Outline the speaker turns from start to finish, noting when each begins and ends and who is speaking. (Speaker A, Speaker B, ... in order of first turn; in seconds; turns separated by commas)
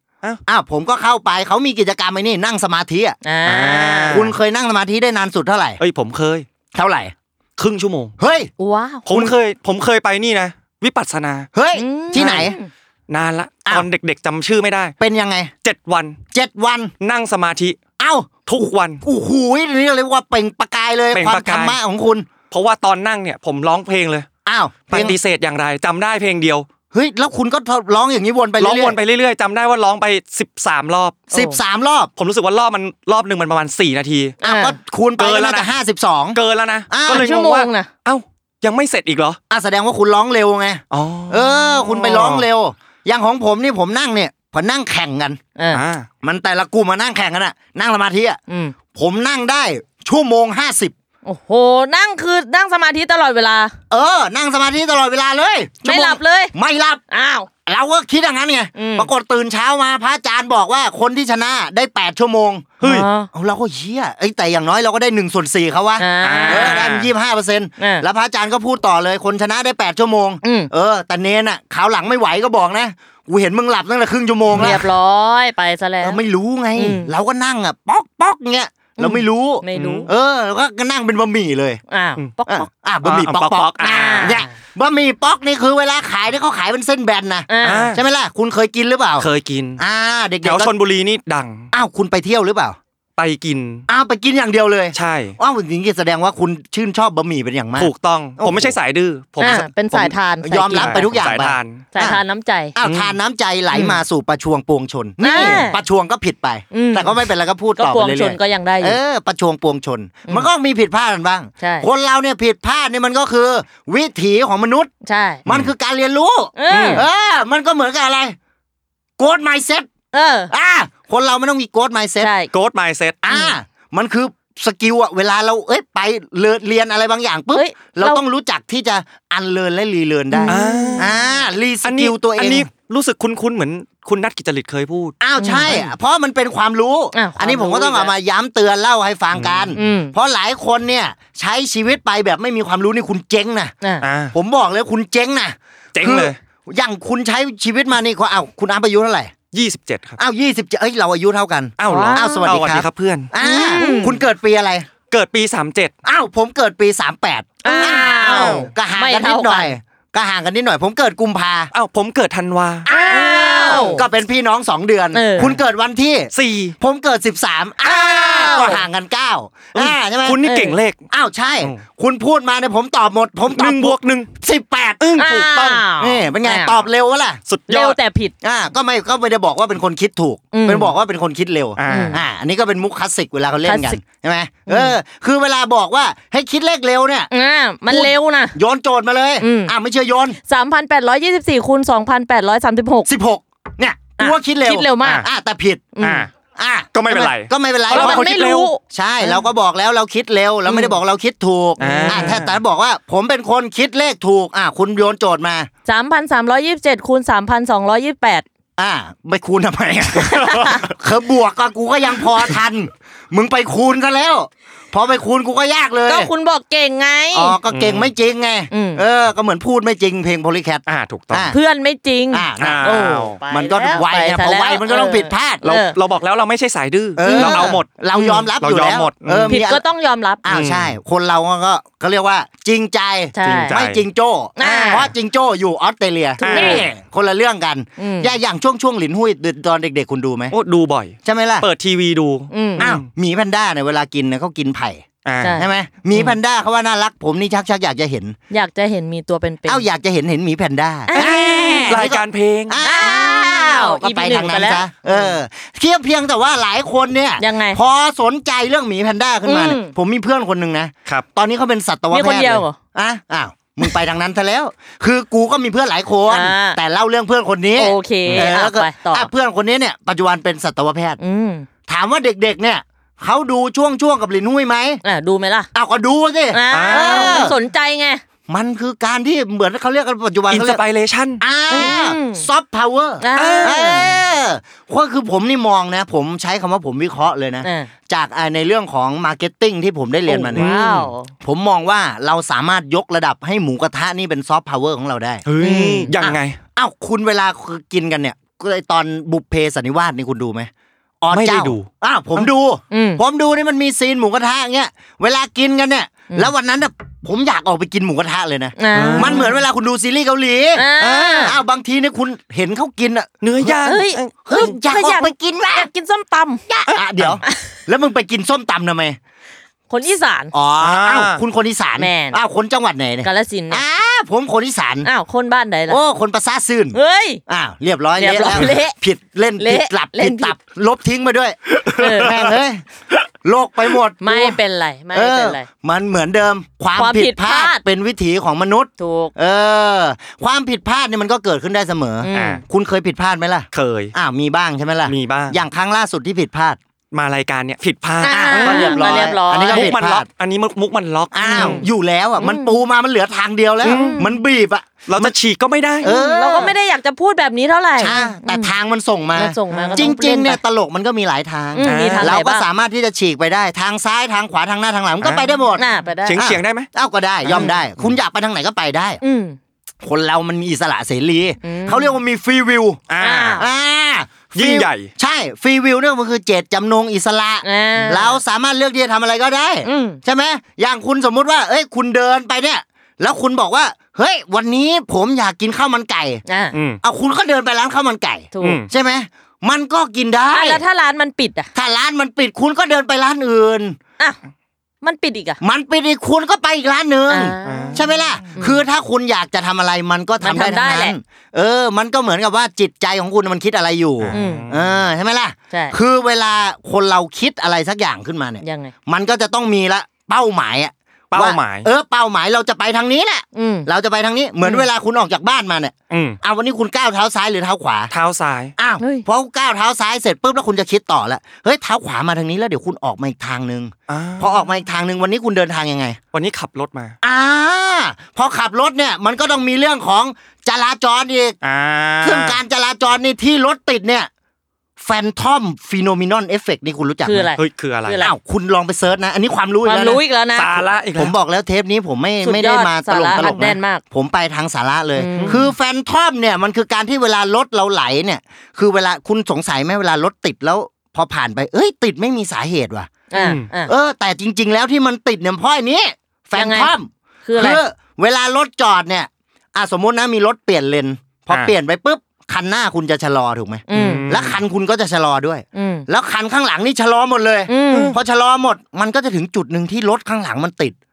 Speaker A: 0.5-3.2, Speaker B: 3.2-4.2, Speaker C: 3.4-4.3, Speaker A: 4.1-5.8, Speaker C: 5.8-6.5, Speaker A: 6.7-7.1, Speaker C: 7.6-8.1, Speaker A: 8.2-8.5, Speaker B: 8.6-9.1, Speaker C: 9.1-11.5, Speaker A: 9.1-9.3, Speaker A: 11.5-12.6, Speaker B: 11.7-12.7, Speaker C: 12.2-12.5, Speaker C: 13.1-14.9, Speaker A: 15.0-15.5, Speaker C: 15.6-16.2, Speaker A: 16.3-16.9, Speaker C: 17.0-17.8, Speaker A: 18.0-18.4, Speaker C: 18.4-19.0, Speaker A: 19.0-22.3, Speaker C: 21.1-21.8, Speaker C: 22.5-24.3, Speaker A: 24.4-25.2, Speaker C: 24.9-26.7, Speaker A: 26.9-29.0, Speaker C: 28.6-31.2, Speaker B: 31.3-31.6, Speaker A: 31.3-32.1, Speaker C: 32.1-34.4, Speaker B: 34.4-34.8, Speaker A: 34.4-37.3, Speaker C: 35.2-35.7, Speaker C: 36.3-39.4, Speaker B: 37.1-37.9, Speaker A: 39.5-45.4, Speaker C: 40.9-42.5, Speaker B: 45.5-45.8, Speaker C: 45.7-46.1, Speaker A: 46.2-48.4, Speaker B: 48.5-48.7, Speaker A: 48.9-50.9, Speaker B: 51.2-53.7, Speaker A: 53.9-57.0, Speaker B: 55.8-56.5, Speaker B: 57.1-57.5, Speaker A: 57.6-62.8, Speaker B: 58.8-59.1, Speaker B: 62.8-63.3, Speaker A: 63.3-74.9, Speaker B: 66.0-66.9, Speaker C: 66.2-67.1, Speaker B: 67.8-68.0, Speaker B: 70.4-70.7, Speaker C: 74.5-74.8, Speaker B: 74.5-76.2, Speaker A: 76.0-81.8, Speaker B: 76.7-77.1, Speaker B: 79.0-80.1, Speaker C: 79.7-80.1, Speaker B: 81.9-82.7, Speaker A: 82.5-90.7, Speaker C: 83.0-84.4, Speaker B: 83.8-84.5, Speaker B: 87.5-88.0, Speaker C: 87.6-88.0, Speaker C: 89.2-89.8, Speaker C: 90.4-91.7, Speaker A: 91.7-92.8, Speaker C: 93.2-93.8, Speaker A: 93.9-98.8, Speaker C: 94.9-95.4, Speaker C: 97.8-99.7, Speaker A: 99.4-102.2, Speaker B: 99.4-101.1, Speaker C: 100.7-101.9, Speaker B: 101.9-102.8, Speaker A: 102.8-114.9, Speaker C: 102.8-103.2, Speaker B: 105.2-105.8, Speaker C: 105.3-105.7, Speaker B: 106.7-107.2, Speaker B: 107.8-109.0, Speaker B: 111.6-111.9, Speaker B: 115.0-115.4, Speaker A: 115.4-118.3, Speaker C: 115.5-115.7, Speaker B: 116.6-117.0, Speaker C: 116.7-117.0, Speaker A: 119.2-119.9, Speaker B: 120.1-120.5, Speaker A: 120.5-122.3, Speaker B: 122.2-122.5, Speaker C: 122.5-123.2, Speaker A: 123.2-132.7, Speaker B: 123.3-123.5, Speaker B: 127.5-128.2, Speaker B: 130.3-131.1, Speaker C: 130.5-131.1, Speaker C: 131.8-135.2, Speaker A: 135.2-143.7, Speaker B: 135.4-135.8, Speaker B: 137.1-138.1, Speaker C: 139.3-139.8, Speaker B: 139.7-140.1, Speaker C: 144.0-144.3, Speaker A: 144.3-149.3, Speaker C: 145.9-146.4, Speaker C: 149.5-150.2, Speaker A: 150.2-154.9, Speaker C: 151.8-154.0, Speaker B: 151.9-152.5, Speaker B: 153.4-154.2, Speaker C: 155.1-155.9, Speaker A: 156.0-161.7, Speaker B: 157.6-159.7, Speaker C: 157.7-158.7, Speaker C: 161.7-164.0, Speaker A: 162.8-170.4, Speaker B: 163.0-164.0, Speaker B: 165.1-165.5, Speaker C: 166.3-166.8, Speaker B: 167.8-168.8, Speaker C: 168.2-168.7, Speaker C: 169.7-171.0, Speaker B: 170.4-170.8, Speaker A: 171.1-177.4, Speaker C: 173.5-174.3, Speaker C: 175.0-175.2, Speaker B: 175.2-176.8, Speaker C: 177.4-178.0, Speaker B: 177.7-178.3, Speaker A: 178.4-187.3, Speaker B: 180.5-180.9, Speaker C: 181.8-182.2, Speaker B: 181.9-182.2, Speaker B: 183.6-184.0, Speaker B: 184.7-184.9, Speaker B: 187.3-188.6, Speaker A: 187.9-190.4, Speaker B: 189.4-189.7, Speaker B: 190.4-193.1, Speaker A: 193.1-195.9, Speaker B: 194.2-195.3, Speaker B: 195.9-196.3, Speaker C: 196.0-196.3, Speaker A: 196.6-205.7, Speaker C: 196.9-198.7, Speaker B: 197.9-198.8, Speaker B: 200.7-200.9, Speaker B: 201.8-202.4, Speaker C: 201.8-202.6, Speaker B: 205.8-208.4, Speaker A: 208.8-216.3, Speaker B: 210.2-210.8, Speaker B: 216.0-217.6, Speaker A: 217.3-221.6, Speaker C: 217.7-218.1, Speaker B: 218.7-219.0, Speaker C: 220.9-221.5, Speaker B: 221.5-225.9, Speaker A: 222.3-225.6, Speaker C: 222.6-223.4, Speaker C: 225.6-227.9, Speaker A: 227.2-229.8, Speaker B: 227.2-228.5, Speaker C: 228.6-229.6, Speaker B: 229.5-230.4, Speaker A: 230.4-240.5, Speaker C: 230.5-230.9, Speaker B: 233.3-233.8, Speaker C: 233.4-234.0, Speaker B: 234.6-235.1, Speaker C: 234.6-235.1, Speaker B: 236.4-236.9, Speaker C: 236.4-236.9, Speaker B: 238.0-238.3, Speaker C: 240.5-243.1, Speaker A: 241.2-241.7, Speaker B: 242.5-242.9, Speaker A: 242.8-248.3, Speaker C: 245.2-245.6, Speaker B: 245.4-245.7, Speaker B: 248.5-249.8, Speaker A: 249.7-271.2, Speaker B: 251.1-252.0, Speaker C: 251.9-252.8, Speaker B: 252.8-255.4, Speaker B: 257.4-257.8, Speaker B: 259.4-259.9, Speaker B: 262.1-262.8, Speaker B: 266.3-266.8, Speaker B: 267.8-269.3, Speaker B: 271.2-271.7, Speaker A: 271.9-275.0, Speaker B: 275.0-275.7, Speaker A: 275.7-277.6, Speaker B: 276.5-278.2, Speaker C: 276.7-277.5, Speaker A: 278.5-280.8, Speaker C: 280.5-281.9, Speaker A: 281.4-290.8, Speaker B: 281.7-282.5, Speaker B: 283.2-284.1, Speaker C: 283.4-284.2, Speaker B: 287.6-287.9, Speaker B: 290.3-291.3, Speaker C: 290.5-291.1, Speaker A: 291.4-295.5, Speaker C: 295.4-296.6, Speaker B: 295.6-296.1, Speaker A: 296.2-300.7, Speaker A: 301.2-313.3, Speaker C: 301.3-302.5, Speaker B: 302.9-303.2, Speaker B: 308.8-309.5, Speaker C: 308.9-309.6, Speaker B: 310.7-311.6, Speaker C: 313.4-314.6, Speaker B: 313.8-316.6, Speaker A: 314.4-315.9, Speaker A: 316.7-319.2, Speaker C: 316.9-317.4, Speaker B: 319.9-320.5, Speaker A: 320.5-325.1, Speaker C: 320.8-321.4, Speaker B: 321.9-322.4, Speaker B: 323.2-323.8, Speaker B: 325.0-326.0, Speaker A: 325.9-332.8, Speaker B: 326.9-327.4, Speaker B: 328.1-328.9, Speaker B: 329.6-330.6, Speaker B: 332.0-332.4, Speaker A: 333.4-334.6, Speaker B: 334.2-335.7, Speaker A: 335.1-346.8, Speaker B: 336.9-337.8, Speaker B: 339.0-339.3, Speaker B: 342.2-342.6, Speaker C: 342.3-342.6, Speaker C: 343.7-344.1, Speaker C: 345.1-345.6, Speaker C: 347.1-351.9, Speaker B: 348.2-349.9, Speaker A: 348.3-350.3, Speaker A: 351.3-355.3, Speaker B: 351.5-351.9, Speaker B: 352.4-352.8, Speaker C: 353.8-354.3, Speaker B: 353.9-354.3, Speaker C: 355.1-356.1, Speaker A: 356.0-356.8, Speaker B: 356.0-358.7, Speaker A: 358.0-369.2, Speaker B: 359.3-360.6, Speaker C: 359.7-360.1, Speaker B: 361.7-362.6, Speaker C: 361.8-362.3, Speaker C: 365.2-365.5, Speaker B: 365.7-366.4, Speaker C: 366.2-366.9, Speaker C: 367.4-368.1, Speaker B: 369.2-369.6, Speaker A: 370.0-386.4, Speaker B: 371.6-372.2, Speaker C: 373.1-373.6, Speaker B: 373.2-373.6, Speaker C: 374.5-375.1, Speaker B: 377.6-378.4, Speaker B: 379.8-380.2, Speaker B: 386.4-386.8, Speaker C: 386.7-387.0, Speaker A: 387.0-390.8, Speaker B: 388.5-388.8, Speaker C: 388.6-388.9, Speaker B: 390.5-391.7, Speaker A: 391.7-394.0, Speaker B: 395.0-395.6, Speaker A: 395.6-418.1, Speaker B: 397.3-398.8, Speaker C: 397.6-398.1, Speaker B: 400.4-401.1, Speaker C: 404.2-405.0, Speaker B: 404.3-404.7, Speaker B: 405.7-406.0, Speaker B: 408.6-408.9, Speaker C: 411.3-411.9, Speaker B: 413.5-413.9, Speaker C: 416.1-416.4, Speaker C: 418.1-418.7, Speaker A: 418.8-426.2, Speaker B: 419.0-419.2, Speaker C: 424.1-424.7, Speaker C: 426.3-427.1, Speaker A: 427.2-431.6, Speaker C: 431.6-432.6, Speaker A: 432.2-434.3, Speaker A: 435.0-437.5, Speaker B: 437.2-438.3, Speaker C: 437.6-438.2, Speaker A: 438.2-440.2, Speaker B: 439.8-440.8, Speaker C: 440.5-441.3, Speaker A: 441.1-453.1, Speaker B: 442.4-444.0, Speaker C: 443.4-443.7, Speaker B: 445.1-445.6, Speaker C: 445.3-445.6, Speaker B: 453.3-453.9, Speaker C: 453.4-453.7, Speaker A: 453.9-470.9, Speaker B: 456.5-456.9, Speaker B: 457.4-457.8, Speaker B: 463.9-464.2, Speaker C: 463.9-464.6, Speaker B: 465.7-466.1, Speaker B: 467.7-468.1